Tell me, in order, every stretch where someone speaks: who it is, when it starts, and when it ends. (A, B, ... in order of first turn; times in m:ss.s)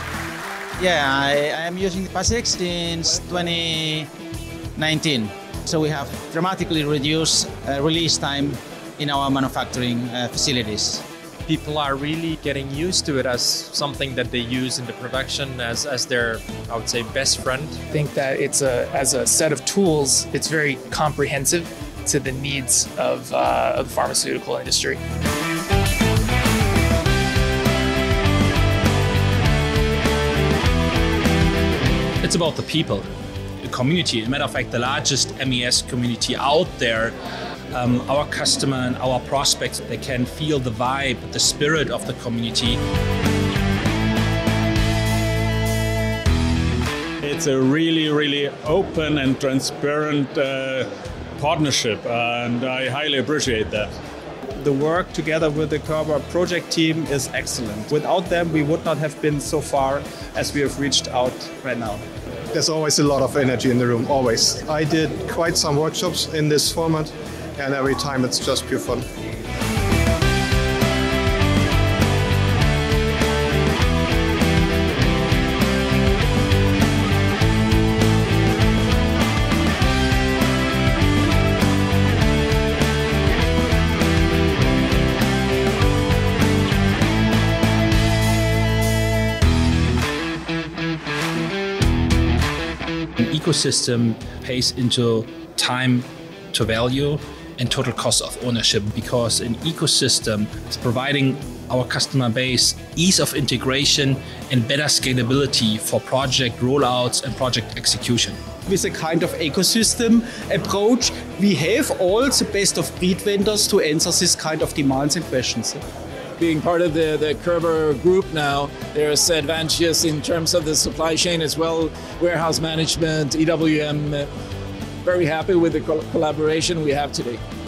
0:00.8-0:04.1 A
0:04.8-0:11.0 A
0:11.4-0:17.8 B
0:17.9-0:25.0 C
0:32.2-0:33.1 D
0:33.6-0:37.2 D
0:37.7-0:42.8 D
0:47.2-0:53.9 E
0:54.6-1:02.0 F
1:02.5-1:09.0 G
1:33.2-1:48.4 D
1:48.7-1:55.8 H
1:56.4-2:04.3 I
2:05.0-2:07.4 I